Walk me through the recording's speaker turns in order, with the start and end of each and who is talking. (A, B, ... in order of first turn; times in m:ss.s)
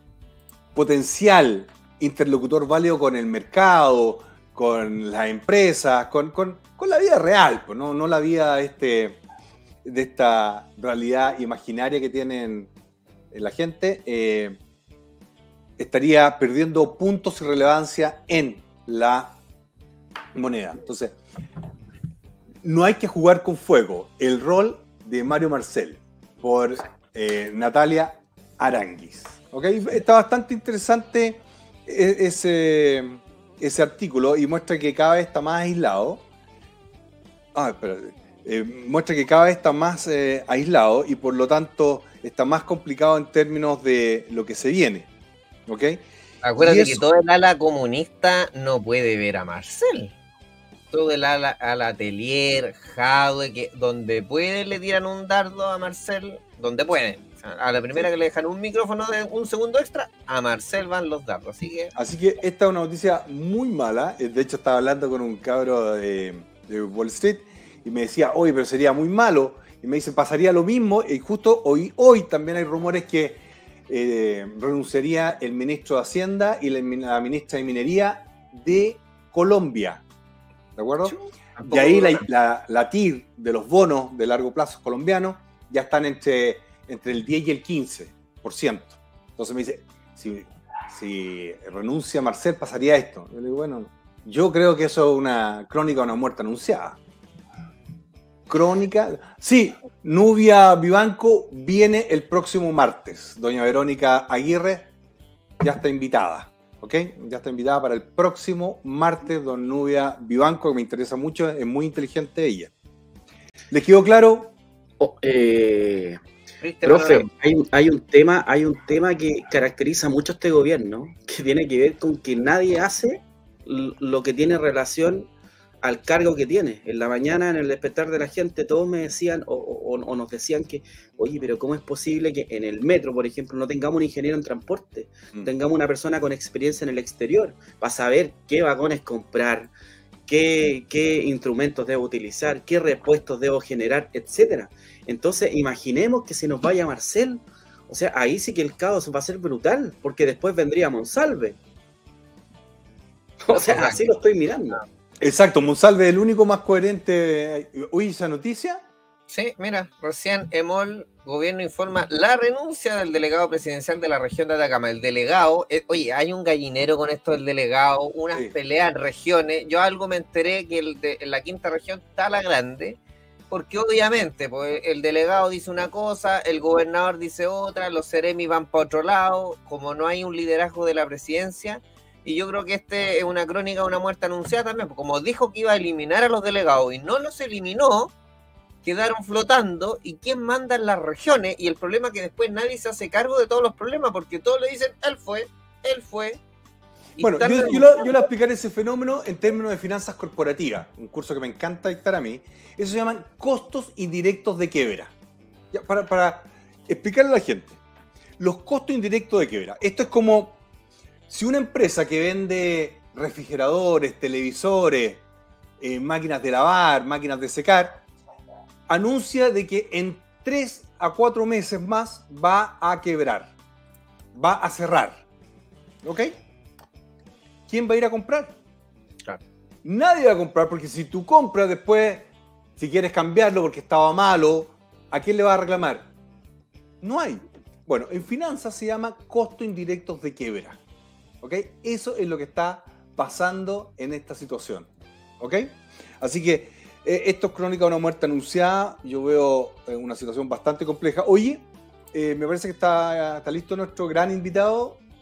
0:00.7-0:09.2 A
0:09.8-0:12.7 A
0:13.3-0:14.6 A
0:15.8-0:19.4 A
0:20.3-0:21.2 A
0:22.6-0:36.2 A
0:37.5-0:45.1 A
0:45.6-0:46.0 A
0:46.4-0:50.1 B
0:46.6-0:47.0 A
0:50.9-1:01.9 B
1:01.9-1:20.0 A
1:20.8-1:37.0 A
1:21.0-1:22.2 B
1:38.5-1:44.9 A
1:45.6-1:52.7 A
1:53.7-1:54.5 A
1:55.0-1:56.2 C
1:56.6-1:57.3 B
1:56.8-2:05.3 C
2:05.8-2:19.7 C
2:20.3-2:31.6 C
2:33.4-2:34.8 C
2:33.5-2:34.1 B
2:35.2-2:38.8 A
2:39.3-2:53.0 B
2:53.5-3:08.1 B
3:08.8-3:16.4 B
3:17.2-3:18.2 B
3:17.2-3:25.1 A
3:25.7-3:27.8 A
3:28.4-3:30.6 A
3:31.3-3:35.2 A
3:35.8-3:38.0 A
3:38.9-3:43.5 A
3:44.3-3:45.2 A
3:46.0-3:46.3 A
3:47.7-3:48.6 A
3:49.8-3:56.1 A
3:57.0-4:00.8 A
4:01.4-4:15.0 A